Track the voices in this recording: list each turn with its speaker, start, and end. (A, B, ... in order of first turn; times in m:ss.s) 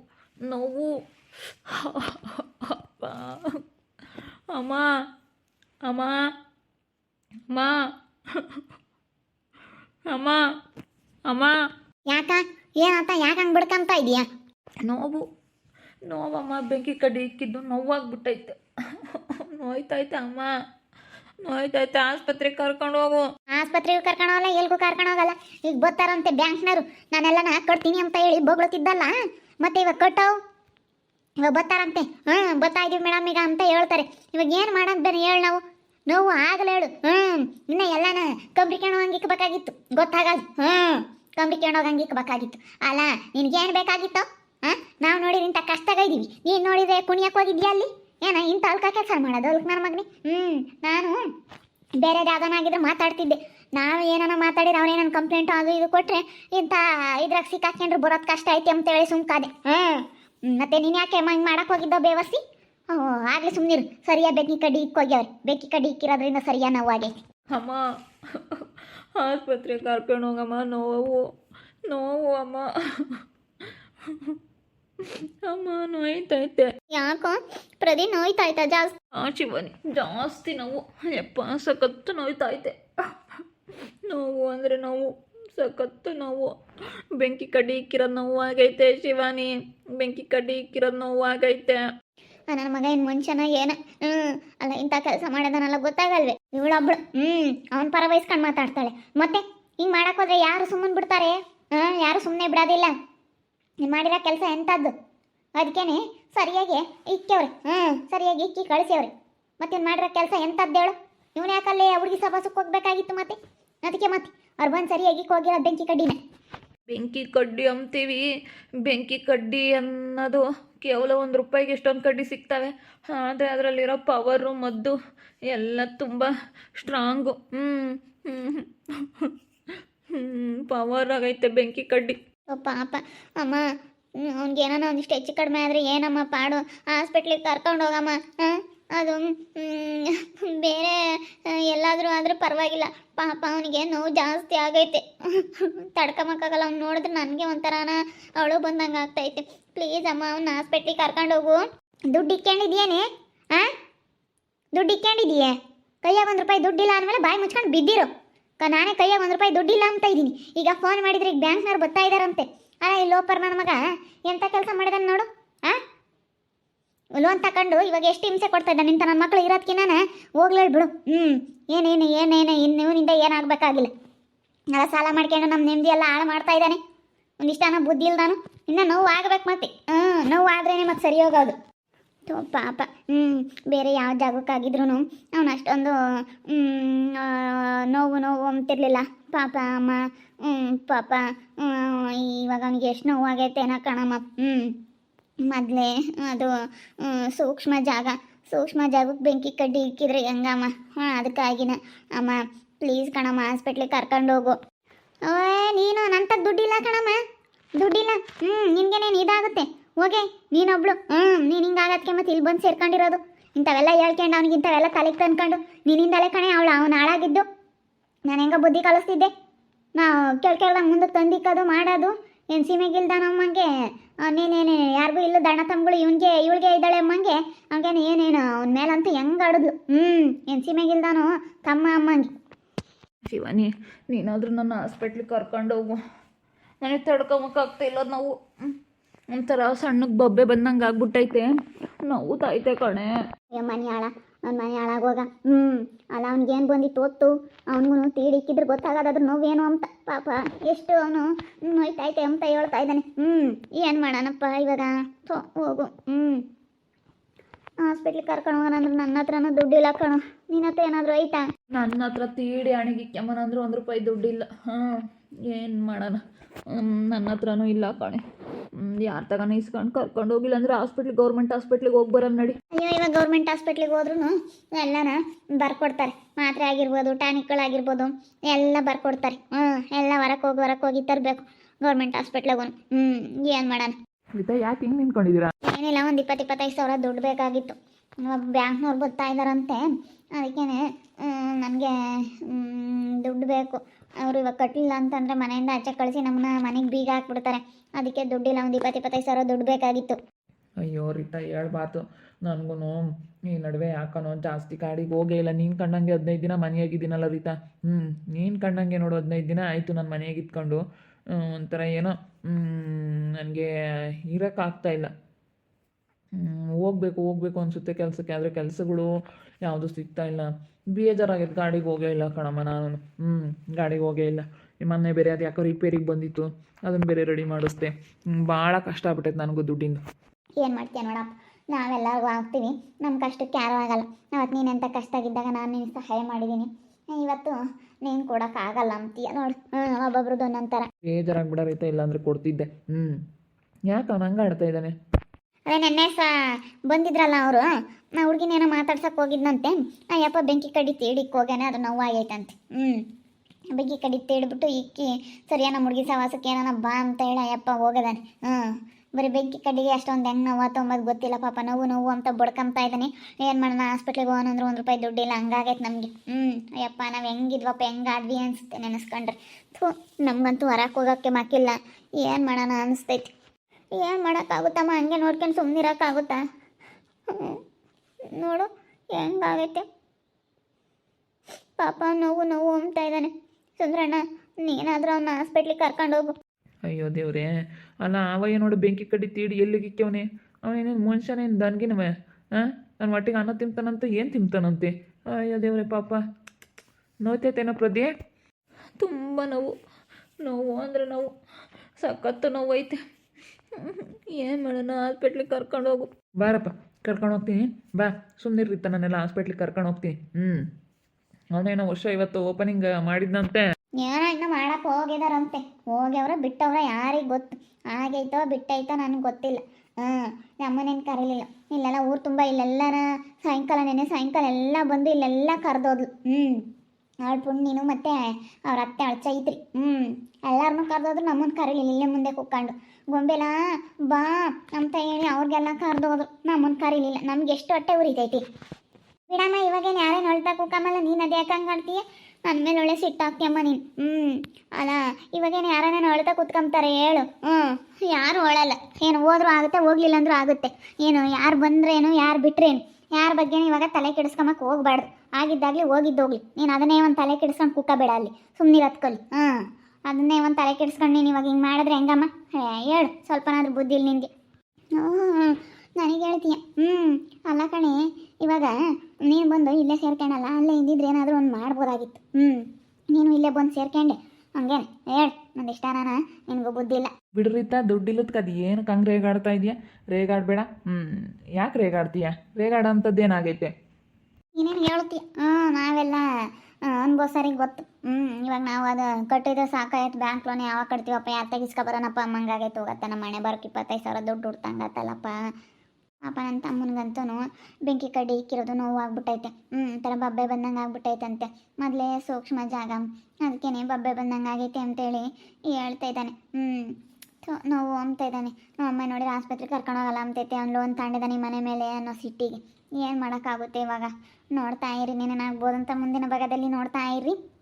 0:00.4-0:00.9 A
0:01.7-0:03.6 A
0:04.5-0:04.9 A
0:05.8-0:06.2 A
0:07.5-0:07.8 A
0:08.4-0:08.6 A
0:10.1-0:10.4 A
0:11.3-0:11.5 A
0:12.1-0:14.2 B
0:14.8-0:15.2 A
0:16.0-0:20.5 A
0:21.4-0:23.3 A
0:23.5-0:30.3 B
0:31.4-0:51.2 B
0:52.0-1:02.4 B
1:02.9-1:07.2 B
1:07.5-1:07.8 A
1:08.3-1:08.6 A
1:09.2-1:11.2 A
1:11.9-1:13.2 A
1:15.0-1:16.7 A
1:16.9-1:19.0 B
1:19.1-1:22.8 A
1:24.0-1:26.5 A
1:27.2-1:31.8 A
1:32.5-1:42.9 B
1:43.8-1:44.9 B
1:45.6-1:56.2 B
1:56.9-1:58.2 A
1:58.8-2:04.9 A
2:05.5-2:09.3 A
2:10.1-2:12.2 A
2:12.5-2:13.6 B
2:14.2-2:33.7 B
2:34.7-2:45.8 B
2:47.2-2:53.9 B
2:54.7-2:56.8 B
2:57.4-3:01.5 B
3:02.3-3:14.7 B
3:15.5-3:24.6 B
3:25.3-3:27.2 B
3:27.8-3:37.4 B
3:38.3-3:39.3 B
3:40.0-3:43.7 B
3:44.2-3:52.3 B
3:53.2-3:56.0 A
3:56.8-3:58.7 A
3:59.3-4:01.5 A
4:02.0-4:03.1 A
4:03.5-4:16.4 B
4:17.8-4:21.5 B
4:21.7-4:28.2 A
4:28.8-4:32.6 A
4:32.7-4:43.9 B
4:44.4-4:45.5 C
4:45.6-5:00.2 B
5:00.8-5:10.8 C
5:11.3-5:13.7 C
5:14.3-5:15.1 C
5:16.3-5:19.1 C
5:19.6-5:30.0 C
5:30.6-5:40.9 B
5:41.0-5:43.2 C
5:43.9-5:44.9 C
5:45.7-5:46.3 B
5:46.9-5:53.0 B
5:53.7-6:13.3 B
6:13.9-6:16.4 B
6:17.3-6:17.6 B
6:18.3-6:19.8 B
6:21.8-6:26.3 B
6:26.9-6:27.5 C
6:28.0-6:36.2 C
6:37.2-6:38.1 C
6:39.0-6:39.8 A
6:40.4-6:41.3 A
6:42.0-6:43.0 A
6:43.7-6:46.1 A
6:46.4-6:50.6 C
6:51.5-6:53.6 C
6:54.0-7:06.6 B
7:07.2-7:13.6 B
7:14.1-7:18.4 B
7:19.3-7:44.3 B
7:44.9-7:57.1 B
7:57.4-8:03.7 C
8:04.6-8:06.2 B
8:06.8-8:15.4 B
8:16.3-8:26.9 B
8:27.4-8:37.4 B